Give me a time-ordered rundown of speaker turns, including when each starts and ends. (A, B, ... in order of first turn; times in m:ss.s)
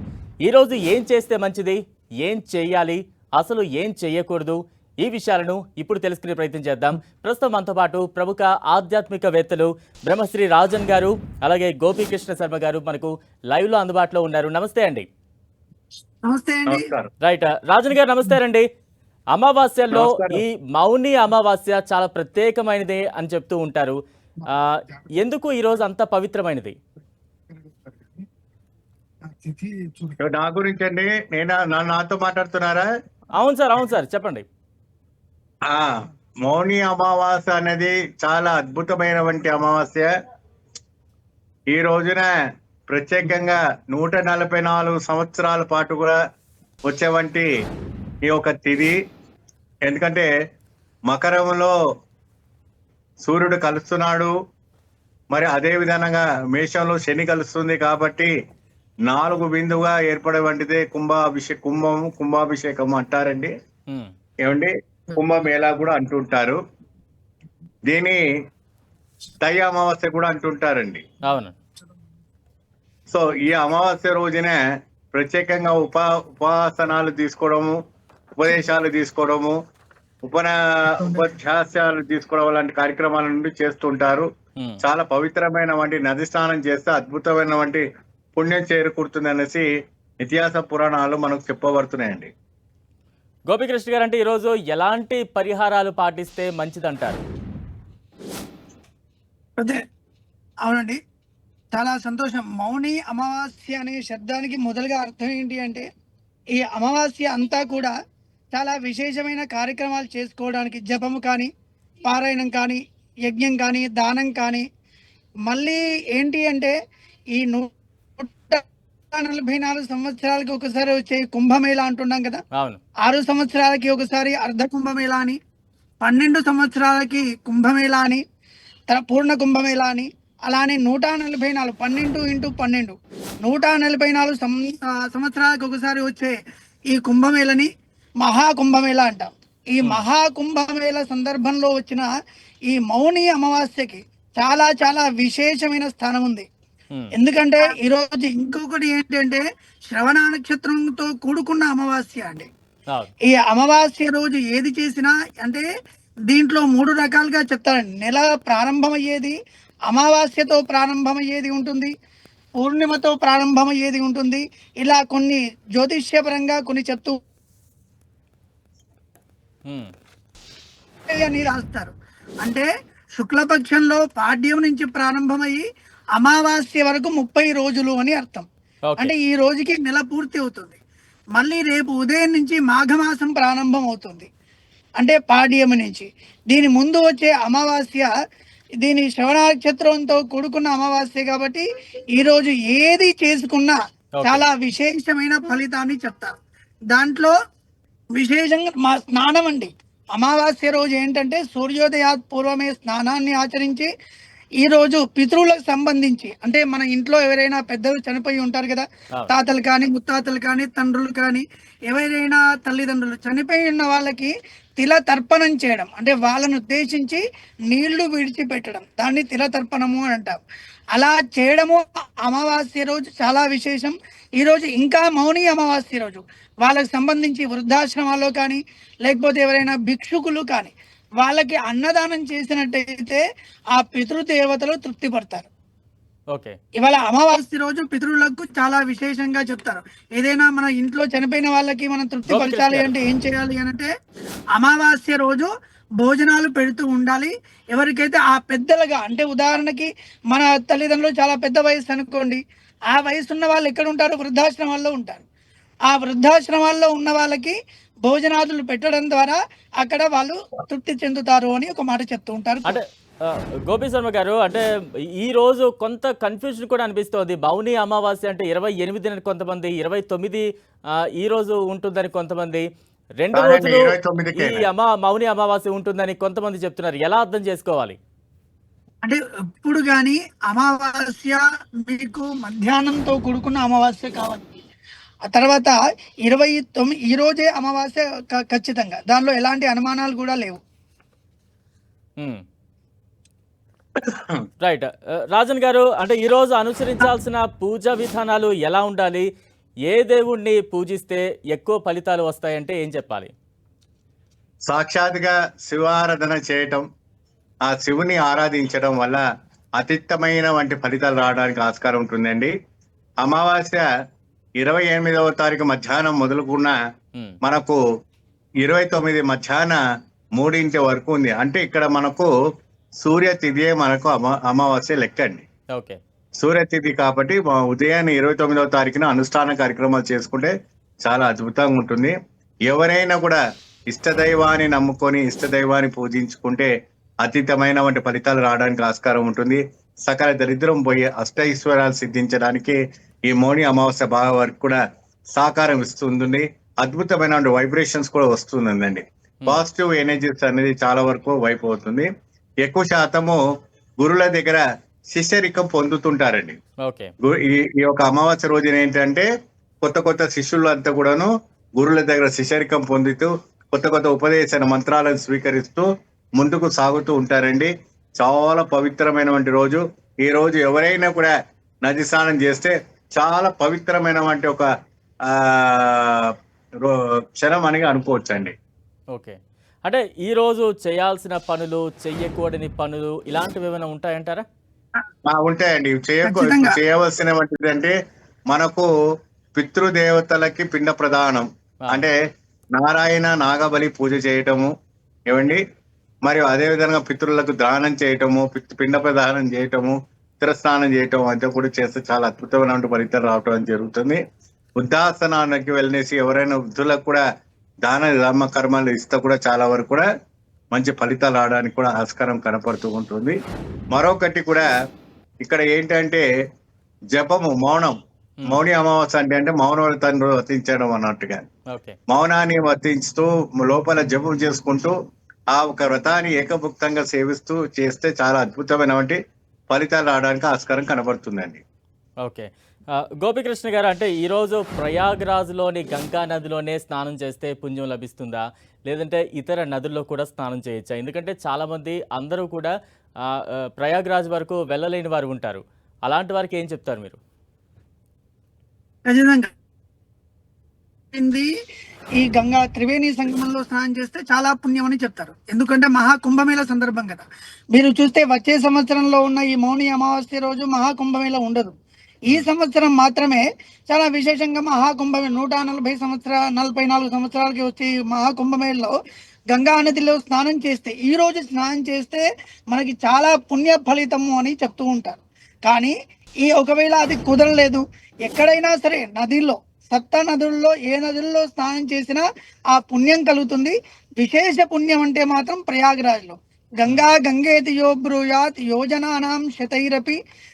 0:00.4-0:15.0 A
0:16.3-0:16.9 B
0:16.7-0:17.1 C
0:17.2-0:18.6 A
0:19.3-0:26.7 A
0:19.9-0:20.4 C
0:29.4-0:30.0 B
0:30.2-0:32.9 C
0:33.4-0:34.4 A
0:35.7-0:40.1 C
0:41.7-0:42.3 C
0:42.9-0:46.2 C
0:46.8-0:47.5 C
0:48.2-0:49.0 C
0:49.8-0:50.3 C
0:51.1-0:51.7 C
0:53.2-0:54.3 C
0:55.3-0:58.3 C
0:59.1-1:03.5 C
1:04.4-1:06.6 C
1:07.9-1:08.2 C
1:09.4-1:11.0 C
1:11.2-1:11.5 A
1:13.1-1:14.6 C
1:15.1-1:17.8 C
1:18.4-1:19.6 C
1:20.2-1:24.3 C
1:24.8-1:27.8 C
1:28.4-1:29.6 C
1:30.2-1:32.3 C
1:33.5-1:37.2 A
1:40.6-1:41.0 B
1:41.7-1:45.8 B
1:46.6-1:47.9 B
1:48.5-1:51.5 B
1:52.0-1:54.6 B
1:55.5-1:56.7 B
1:57.4-2:02.4 B
2:03.0-2:05.4 B
2:06.0-2:08.2 B
2:08.9-2:16.4 B
2:16.9-2:17.7 B
2:18.2-2:22.1 B
2:22.7-2:26.5 B
2:27.1-2:32.5 B
2:33.3-2:35.6 B
2:36.3-2:39.4 B
2:39.9-2:41.9 B
2:42.6-2:47.2 B
2:51.1-2:55.6 B
2:56.2-3:00.8 B
2:58.9-2:59.1 A
3:01.4-3:04.3 B
3:05.0-3:08.1 B
3:08.8-3:16.3 B
3:14.2-3:14.4 A
3:16.9-3:17.3 B
3:18.2-3:23.9 B
3:24.6-3:40.4 B
3:40.9-3:53.2 B
3:53.7-3:55.5 B
3:56.8-4:03.9 B
4:02.3-4:02.9 A
4:04.5-4:05.5 B
4:06.0-4:15.2 B
4:15.9-4:22.8 B
4:22.7-4:24.6 A
4:25.2-4:30.4 A
4:31.2-4:32.6 A
4:33.2-4:38.0 A
4:33.3-4:34.7 C
4:39.0-4:44.5 B
4:45.2-4:50.6 B
4:54.0-4:54.4 C
4:54.6-4:59.3 A
4:59.9-5:03.3 A
5:04.7-5:06.8 C
5:07.7-5:09.2 C
5:09.8-5:12.5 C
5:13.2-5:13.8 C
5:14.6-5:16.8 C
5:17.4-5:17.8 C
5:18.6-5:19.8 C
5:20.4-5:22.3 C
5:23.0-5:25.4 C
5:26.4-5:30.5 C
5:31.0-5:32.2 C
5:32.7-5:36.7 C
5:37.2-5:44.8 C
5:45.4-5:52.1 C
5:52.6-5:53.4 C
5:54.0-5:56.6 C
5:56.8-5:57.1 A
5:57.2-5:59.3 C
5:59.8-6:11.3 C
6:11.8-6:14.7 C
6:15.2-6:16.3 C
6:16.8-6:18.5 C
6:19.1-6:24.4 A
6:25.3-6:28.0 C
6:26.2-6:26.8 B
6:28.5-6:28.9 C
6:29.6-6:32.2 C
6:32.8-6:34.7 C
6:35.3-6:35.6 C
6:36.2-6:44.2 C
6:44.8-6:47.2 C
6:47.8-6:50.1 C
6:50.7-6:53.4 C
6:53.9-6:54.7 C
6:55.4-6:56.2 C
6:57.1-7:01.4 C
7:02.1-7:05.0 C
7:05.5-7:09.2 C
7:09.7-7:11.6 C
7:12.2-7:22.7 A
7:23.2-7:27.2 A
7:29.0-7:29.5 B
7:31.1-7:31.5 B
7:32.2-7:41.8 B
7:42.3-7:49.0 B
7:49.5-7:55.9 B
7:56.4-8:10.2 B